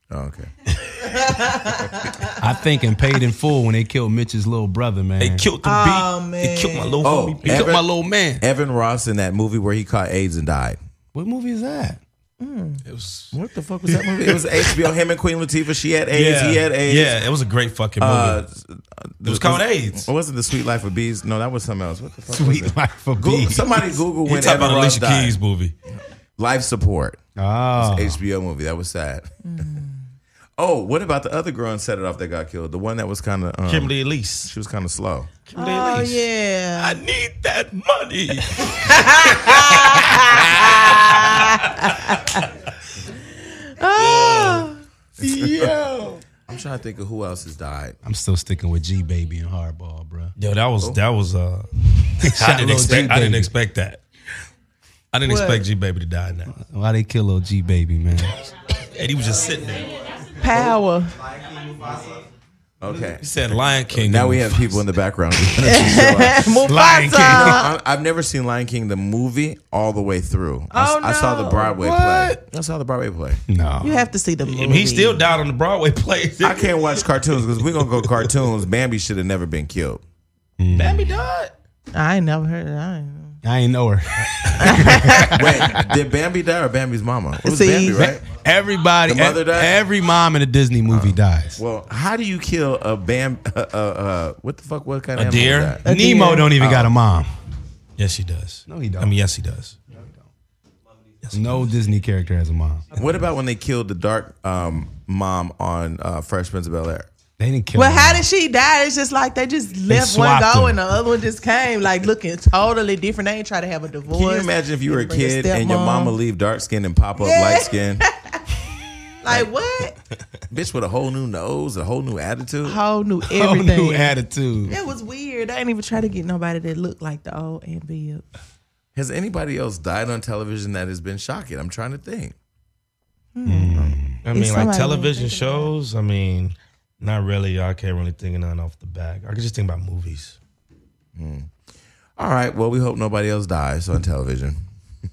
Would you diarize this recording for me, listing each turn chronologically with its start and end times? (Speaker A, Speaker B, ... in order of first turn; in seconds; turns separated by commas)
Speaker A: 0.1-0.5, Speaker B: 0.8-2.4, Speaker C: 2.4-5.4, Speaker D: 5.2-7.7, Speaker B: 5.6-7.1, Speaker A: 7.0-10.8, Speaker C: 7.4-8.4, Speaker C: 11.1-12.0, Speaker B: 12.4-12.8, Speaker D: 12.8-13.3, Speaker A: 13.3-17.1, Speaker D: 13.9-14.7, Speaker D: 16.1-18.4, Speaker A: 18.0-25.4, Speaker D: 19.2-20.1, Speaker C: 22.3-23.9, Speaker D: 24.2-25.7, Speaker A: 26.4-27.2, Speaker C: 27.4-28.2, Speaker A: 27.8-29.3, Speaker B: 29.4-30.1, Speaker A: 30.6-33.9, Speaker D: 33.7-34.5, Speaker A: 34.4-35.3, Speaker D: 35.5-36.2, Speaker B: 35.5-37.0, Speaker D: 36.8-42.4, Speaker B: 38.7-42.5, Speaker B: 43.1-44.8, Speaker D: 43.9-44.7, Speaker A: 45.2-45.7, Speaker C: 45.2-46.2, Speaker D: 45.2-45.7, Speaker A: 46.5-48.0, Speaker C: 48.0-50.3, Speaker D: 50.4-54.0, Speaker C: 52.2-53.5, Speaker D: 55.1-56.5, Speaker B: 55.2-55.6, Speaker C: 56.5-58.3, Speaker D: 58.9-59.9, Speaker B: 60.4-61.2, Speaker A: 62.8-63.3, Speaker D: 63.2-64.8, Speaker A: 63.9-66.6, Speaker B: 65.6-67.7, Speaker C: 66.6-67.6, Speaker A: 67.2-73.4, Speaker B: 70.7-71.8, Speaker C: 71.8-72.4, Speaker C: 73.5-74.0, Speaker B: 73.8-75.2, Speaker D: 74.4-77.0, Speaker A: 76.4-80.0, Speaker D: 77.8-78.1, Speaker C: 80.6-81.2, Speaker D: 80.7-81.5, Speaker B: 81.9-83.4, Speaker C: 83.4-85.9, Speaker B: 84.6-85.4, Speaker A: 85.3-88.2, Speaker B: 87.4-88.1, Speaker C: 88.0-91.6, Speaker A: 89.0-89.8, Speaker A: 90.9-95.8, Speaker D: 95.1-95.8, Speaker B: 95.8-96.5, Speaker C: 95.8-97.3, Speaker A: 96.6-96.9, Speaker D: 98.0-99.8, Speaker C: 98.7-99.1, Speaker D: 101.2-101.6, Speaker C: 101.3-102.9, Speaker A: 102.9-107.1, Speaker C: 107.4-108.2, Speaker B: 107.7-116.2, Speaker C: 109.9-110.8, Speaker A: 114.1-118.0, Speaker B: 117.2-118.5, Speaker B: 119.2-120.0, Speaker A: 120.5-122.8, Speaker B: 122.6-124.1, Speaker C: 123.2-124.8, Speaker B: 124.7-128.2, Speaker A: 128.9-132.3, Speaker B: 133.3-135.7, Speaker C: 133.4-134.2, Speaker D: 134.2-140.4, Speaker A: 141.1-141.5, Speaker A: 142.2-144.6